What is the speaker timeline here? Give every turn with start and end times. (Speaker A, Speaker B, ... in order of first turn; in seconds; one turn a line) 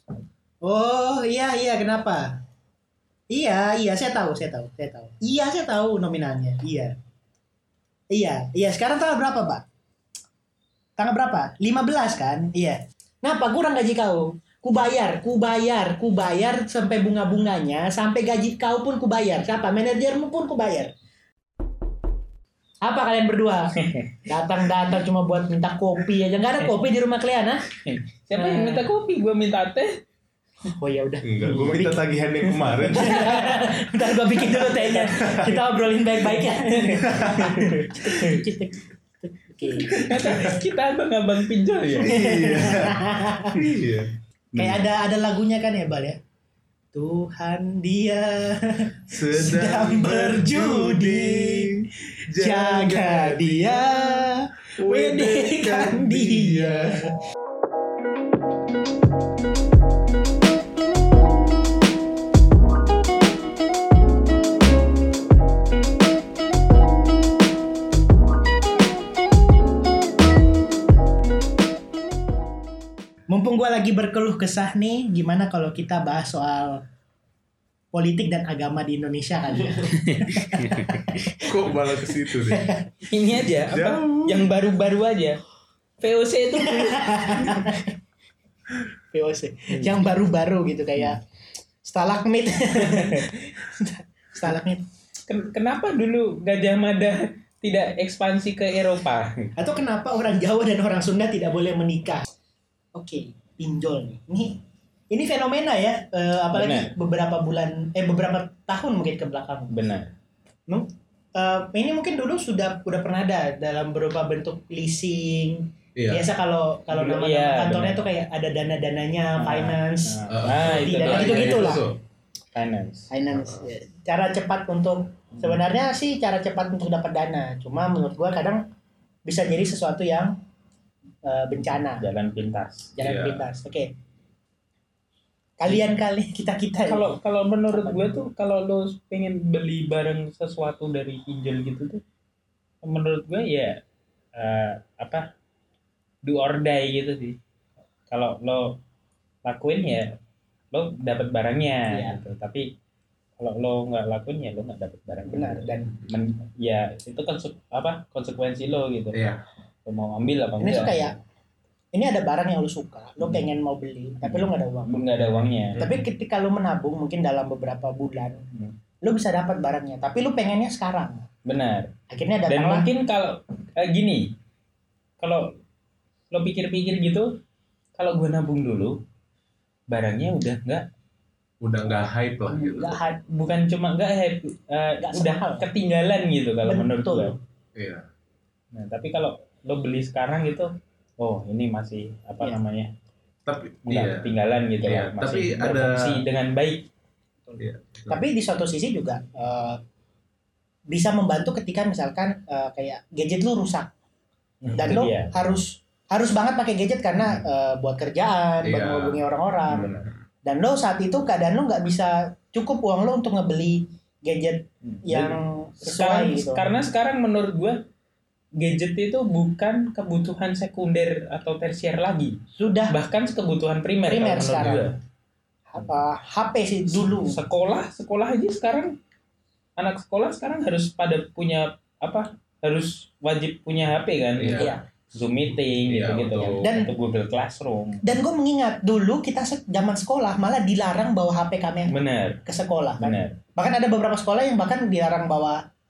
Speaker A: 0.6-2.4
Speaker A: 3.3-7.0
Speaker A: 8.1-9.6
Speaker A: 11.0-20.9
Speaker A: 22.8-27.7
Speaker B: 23.8-24.2
Speaker B: 27.8-30.0
Speaker A: 28.4-28.9
Speaker A: 30.7-32.0
Speaker C: 31.2-33.4
Speaker A: 32.8-40.3
Speaker B: 33.1-33.7
Speaker C: 35.2-35.6
Speaker C: 37.0-37.5
Speaker B: 37.4-38.4
Speaker B: 39.8-42.2
Speaker C: 40.1-40.6
Speaker C: 42.0-44.1
Speaker A: 42.0-43.6
Speaker B: 44.5-44.9
Speaker A: 44.5-46.2
Speaker A: 46.9-51.8
Speaker C: 49.1-54.2
Speaker A: 52.4-57.1
Speaker C: 54.8-57.1
Speaker A: 73.3-76.8
Speaker A: 77.9-83.0
Speaker B: 80.1-81.0
Speaker C: 81.4-82.7
Speaker B: 83.1-85.4
Speaker C: 83.7-84.4
Speaker B: 86.0-87.7
Speaker A: 86.6-87.9
Speaker A: 89.1-91.2
Speaker A: 91.8-94.8
Speaker B: 93.0-93.2
Speaker B: 95.3-99.5
Speaker A: 99.6-102.3
Speaker A: 103.0-109.8
Speaker B: 106.5-106.9
Speaker B: 109.7-110.1
Speaker A: 110.7-121.8
Speaker C: 116.0-116.3
Speaker B: 116.9-118.0
Speaker B: 119.4-121.8
Speaker C: 120.3-122.0
Speaker B: 122.5-123.1
Speaker A: 123.1-128.6
Speaker C: 123.3-123.6
Speaker A: 129.3-130.3
Speaker A: 131.2-132.1
Speaker B: 132.0-132.9
Speaker A: 133.0-133.9
Speaker C: 133.0-133.5
Speaker A: 135.6-137.1
Speaker B: 136.9-142.0
Speaker A: 137.7-138.2
Speaker B: 142.8-143.8
Speaker B: 144.4-145.3
Speaker B: 146.2-147.4
Speaker B: 148.1-148.8
Speaker B: 149.4-150.2
Speaker B: 150.7-152.7
Speaker A: 151.9-152.2
Speaker B: 153.4-159.2
Speaker A: 155.3-155.9
Speaker C: 159.1-159.4
Speaker B: 159.9-161.2
Speaker A: 160.6-161.2
Speaker A: 161.9-165.0
Speaker B: 163.2-163.5
Speaker B: 164.2-165.8
Speaker C: 165.7-166.0
Speaker A: 165.8-168.5
Speaker A: 169.0-171.2
Speaker B: 171.5-171.9
Speaker A: 172.1-172.9
Speaker B: 172.5-174.3
Speaker B: 175.2-175.5
Speaker B: 176.3-177.3
Speaker B: 178.0-179.0
Speaker B: 179.9-180.8
Speaker C: 181.6-183.0
Speaker A: 182.5-183.2
Speaker B: 183.3-187.3
Speaker A: 185.0-185.7
Speaker A: 186.7-187.3
Speaker C: 187.8-188.1
Speaker B: 188.7-192.9
Speaker C: 193.5-196.2
Speaker B: 193.9-196.9
Speaker A: 197.5-199.8
Speaker C: 197.6-198.2
Speaker A: 200.9-203.9
Speaker B: 204.6-205.6
Speaker A: 204.8-209.9
Speaker C: 208.6-210.2
Speaker A: 210.4-216.7
Speaker B: 214.8-217.8
Speaker B: 218.6-222.4
Speaker A: 222.5-223.0
Speaker B: 222.9-224.9
Speaker A: 224.1-224.9
Speaker A: 225.7-227.4
Speaker B: 227.2-228.9
Speaker B: 229.8-238.2
Speaker C: 234.4-234.7
Speaker C: 235.9-236.7
Speaker A: 236.6-236.9
Speaker A: 238.0-245.6
Speaker B: 241.9-242.4
Speaker B: 243.0-243.4